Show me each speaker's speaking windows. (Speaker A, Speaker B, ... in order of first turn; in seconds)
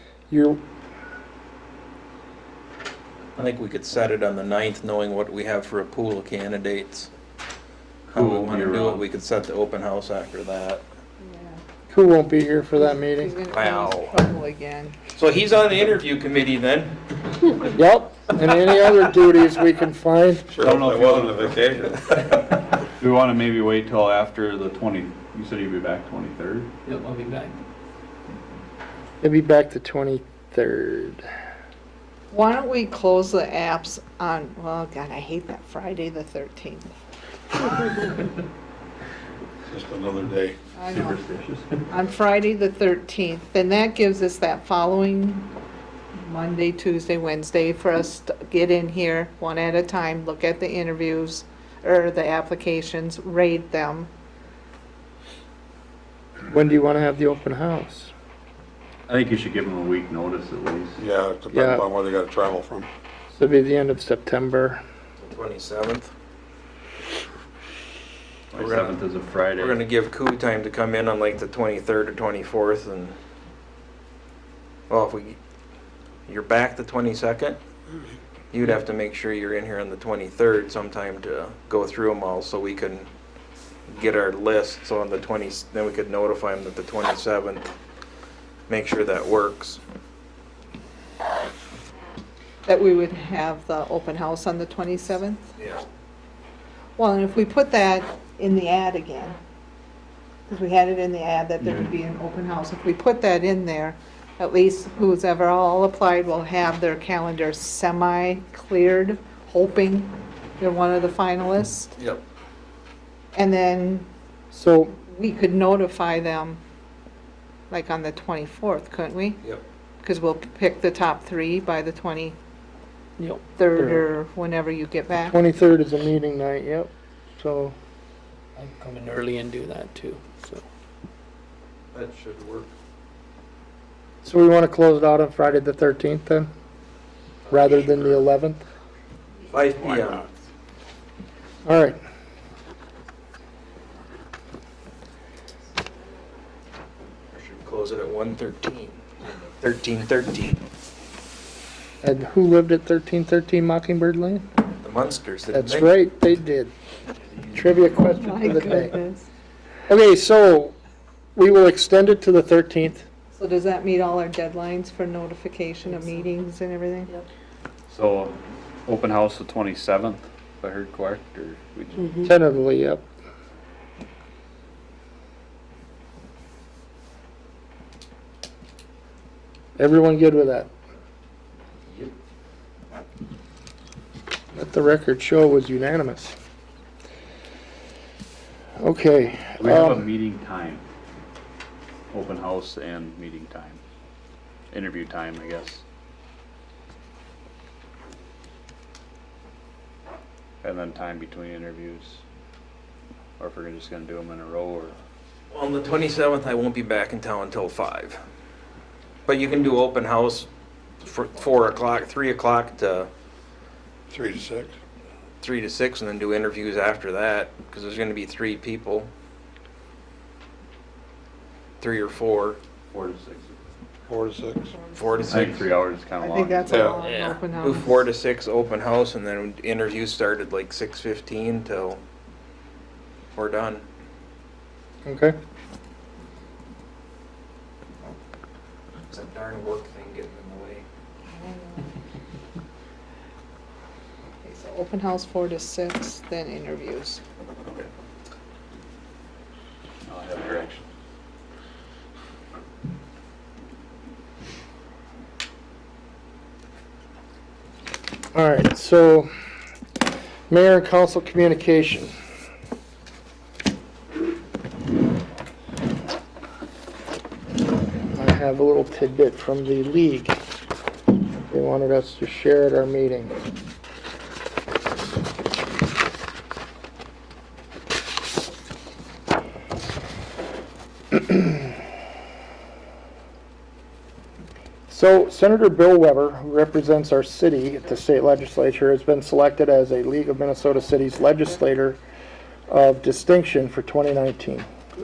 Speaker A: 0.3-0.6, 11.9-13.4, 17.7-20.5, 29.2-31.3, 56.5-58.1, 61.5-61.9, 63.3-64.8, 114.5-115.0, 125.3-127.8, 134.2-136.5, 137.5-138.6, 141.7-142.0, 152.0-154.4, 155.5-156.7, 157.5-159.0, 159.9-160.8, 161.4-163.1, 172.2-173.1, 179.8-180.7, 184.5-186.4, 188.8-190.1, 235.1-235.3, 258.3-259.3, 260.5-262.1, 268.1-270.4, 271.5-273.3, 284.9-292.0, 292.7-294.7
Speaker B: 3.4-7.1, 8.1-10.8, 13.5-14.1, 15.1-17.0, 65.2-66.1, 68.6-68.9, 69.6-73.2, 74.9-75.4, 76.3-77.6, 78.5-83.1, 83.9-87.7, 88.7-89.8, 95.6-95.8, 112.0-112.2, 131.9-132.7, 139.5-140.3, 147.3-150.6, 154.8-155.9, 205.5-208.2, 209.3-210.5, 211.0-213.1, 215.4-219.1, 221.8-222.6, 225.0-225.6, 227.6-232.0, 233.3-233.8, 239.1-240.8
Speaker C: 8.1-9.1, 20.6-21.6, 23.0-26.7, 40.9-41.9, 59.1-61.0, 68.5-69.8, 101.7-101.9, 167.9-172.2, 189.6-190.8, 192.1-193.8, 194.7-195.8, 200.6-202.2, 203.4-204.9, 222.9-223.6, 225.3-227.1, 250.1-250.8
Speaker D: 11.2-11.6, 12.8-15.0, 32.3-36.9, 40.8-41.2, 41.9-45.5, 46.2-54.1, 92.7-95.5, 97.0-99.4, 100.5-112.0, 113.3-114.1, 115.0-116.6, 117.7-119.4, 120.0-122.4, 123.6-125.4, 158.1-159.3, 163.3-167.1, 224.7-228.0, 241.3-241.9, 244.4-247.2
Speaker E: 20.5-22.0, 39.7-40.5, 61.0-62.9, 214.1-214.8, 224.1-224.7, 226.7-227.0
Speaker F: 26.9-27.6, 123.2-124.0, 128.6-130.6